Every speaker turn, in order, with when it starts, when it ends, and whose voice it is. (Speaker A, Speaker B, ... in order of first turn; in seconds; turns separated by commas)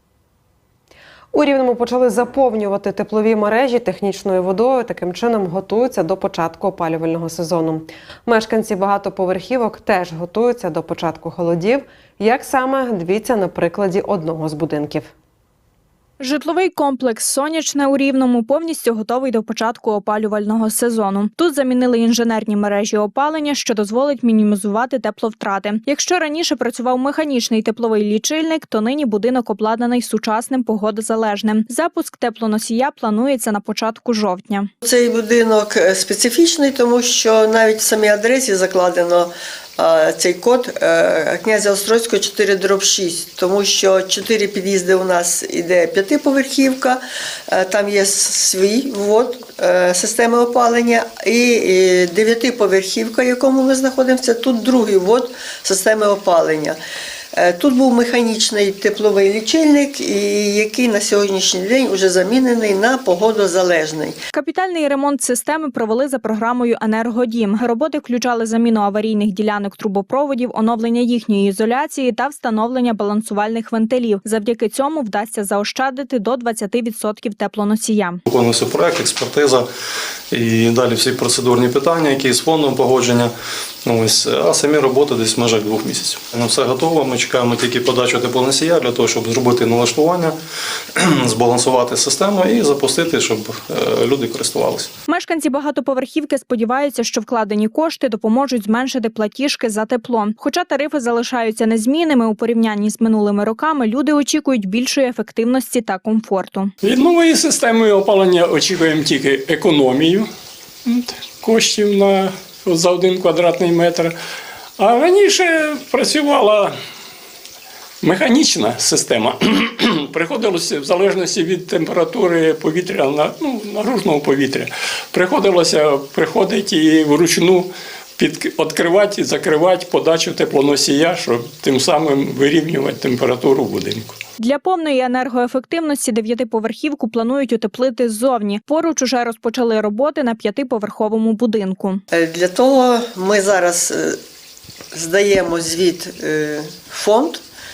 Speaker A: 1.3-15.1, Speaker B: 16.2-34.7, Speaker C: 34.8-56.8, Speaker C: 57.4-64.1, Speaker B: 64.3-78.2, Speaker D: 78.3-79.7, Speaker D: 80.3-83.3, Speaker D: 83.8-90.3, Speaker D: 91.2-94.9, Speaker B: 95.1-106.7, Speaker E: 106.8-110.3, Speaker E: 110.8-114.1, Speaker E: 114.8-116.8, Speaker E: 118.0-134.2, Speaker B: 134.4-142.0, Speaker C: 142.1-144.2, Speaker C: 144.9-147.4